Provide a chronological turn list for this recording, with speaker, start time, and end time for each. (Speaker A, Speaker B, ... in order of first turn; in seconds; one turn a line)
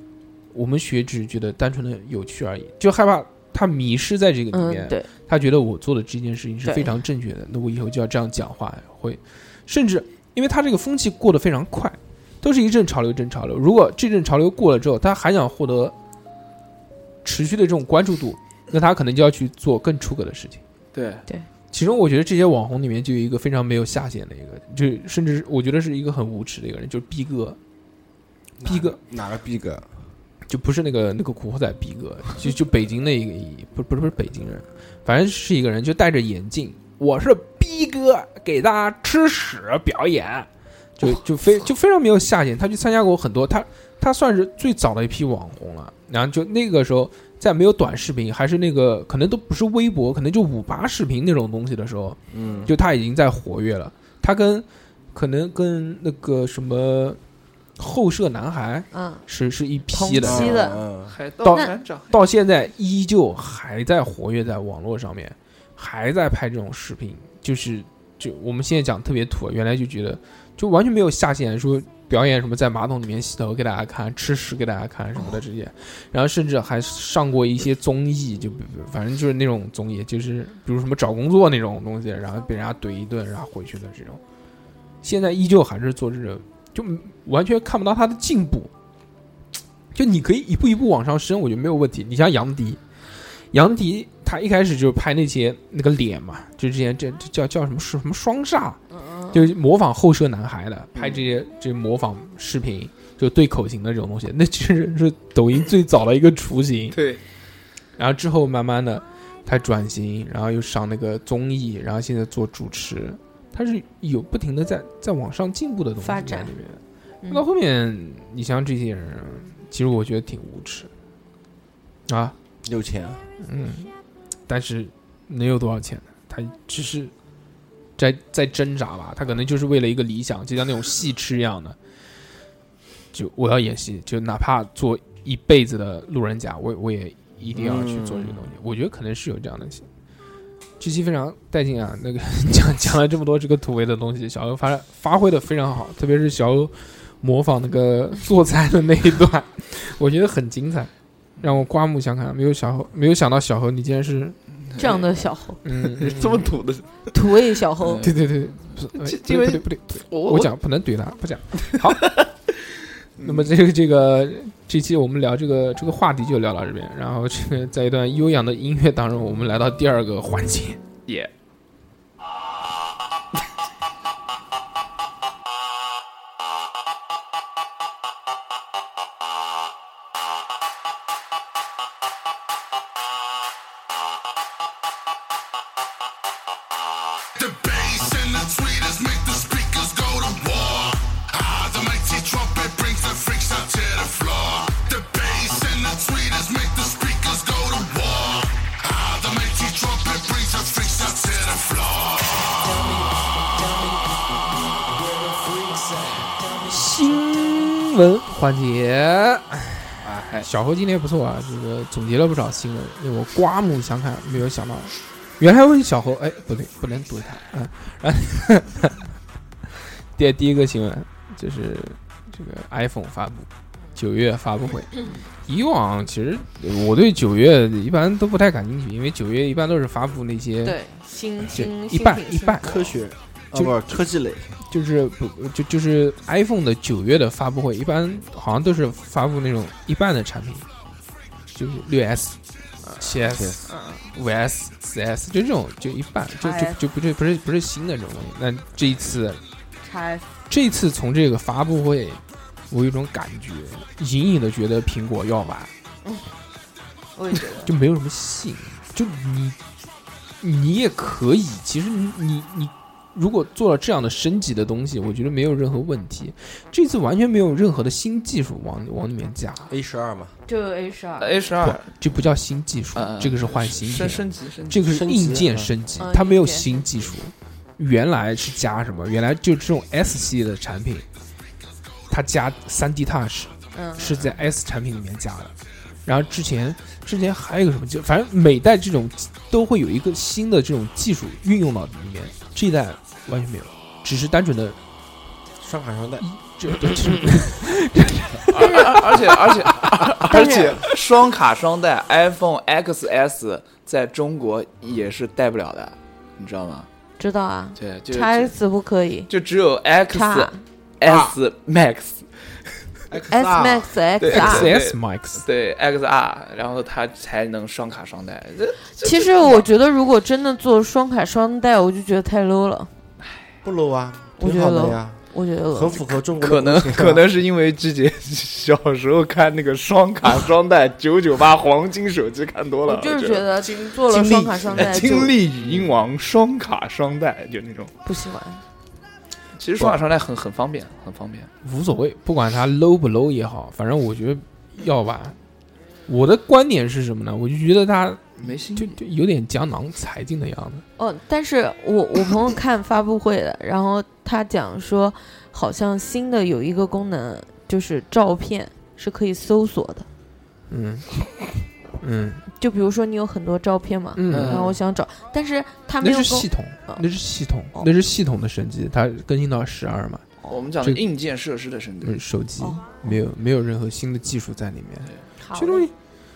Speaker A: 0.5-15.9
Speaker B: 4.5-5.1
Speaker B: 6.6-7.0
Speaker A: 17.2-20.6
Speaker C: 20.9-21.2
Speaker A: 21.7-27.6
Speaker D: 28.6-29.9
Speaker A: 28.6-29.0
Speaker A: 30.5-40.5
Speaker A: 41.0-57.2
Speaker D: 52.3-52.7
Speaker A: 57.8-60.5
Speaker B: 58.9-59.2
Speaker B: 59.9-60.8
Speaker D: 60.2-61.1
Speaker C: 61.1-62.1
Speaker A: 61.4-84.2
Speaker A: 85.0-88.7
Speaker A: 89.9-92.8
Speaker A: 93.4-98.8
Speaker B: 98.9-99.5
Speaker A: 99.3-107.0
Speaker C: 106.9-107.2
Speaker A: 108.0-120.9
Speaker B: 116.0-116.6
Speaker A: 122.1-122.3
Speaker D: 122.6-123.2
Speaker A: 123.4-123.9
Speaker A: 124.5-127.1
Speaker A: 128.0-131.8
Speaker A: 133.1-139.9
Speaker D: 137.5-138.5
Speaker A: 140.8-154.4
Speaker C: 154.7-155.1
Speaker B: 154.8-155.6
Speaker A: 155.6-156.4
Speaker C: 155.8-157.1
Speaker B: 157.1-158.1
Speaker C: 157.8-158.2
Speaker A: 158.0-162.2
Speaker C: 158.9-160.5
Speaker C: 163.2-163.5
Speaker A: 163.2-170.8
Speaker E: 187.4-202.5
Speaker A: 206.6-219.0
Speaker C: 210.0-210.5
Speaker A: 220.2-230.8
Speaker B: 230.6-232.9
Speaker A: 231.5-232.7
Speaker D: 232.6-234.6
Speaker A: 233.6-234.0
Speaker A: 234.7-240.7
Speaker A: 241.5-242.4
Speaker B: 242.8-244.1
Speaker A: 243.0-243.6
Speaker A: 244.1-249.4
Speaker B: 246.4-246.8
Speaker B: 249.8-250.3
Speaker A: 250.5-255.7
Speaker B: 257.2-257.7
Speaker A: 257.6-259.6
Speaker A: 260.4-269.7
Speaker D: 269.7-270.4
Speaker B: 270.5-271.5
Speaker C: 271.2-271.9
Speaker A: 271.6-281.1
Speaker C: 272.9-274.8
Speaker D: 274.8-275.7
Speaker B: 276.0-276.9
Speaker A: 282.1-294.8
Speaker B: 283.7-284.2
Speaker D: 295.6-296.3
Speaker A: 296.2-299.1
Speaker C: 298.5-306.9
Speaker B: 298.6-299.0
Speaker B: 300.3-300.8
Speaker B: 307.2-309.3
Speaker C: 307.8-308.6
Speaker C: 309.3-312.3
Speaker B: 310.1-310.6
Speaker D: 311.0-311.3
Speaker D: 313.1-313.9
Speaker B: 313.3-314.7
Speaker C: 314.2-319.7
Speaker A: 314.3-315.4
Speaker B: 319.0-322.9
Speaker D: 323.6-325.2
Speaker B: 324.4-326.0
Speaker D: 325.7-327.3
Speaker C: 326.4-333.5
Speaker B: 332.9-335.3
Speaker D: 334.1-335.9
Speaker C: 334.7-337.9
Speaker B: 338.1-338.6
Speaker C: 339.6-341.5
Speaker A: 341.6-345.4
Speaker A: 346.1-350.8
Speaker C: 348.4-349.0
Speaker B: 351.0-360.1
Speaker A: 360.7-361.1
Speaker A: 362.0-362.4
Speaker B: 362.6-367.1
Speaker A: 364.1-364.7
Speaker C: 364.3-364.8
Speaker A: 366.0-370.2
Speaker C: 370.5-372.2
Speaker A: 372.0-375.9
Speaker B: 372.6-372.9
Speaker B: 375.4-375.9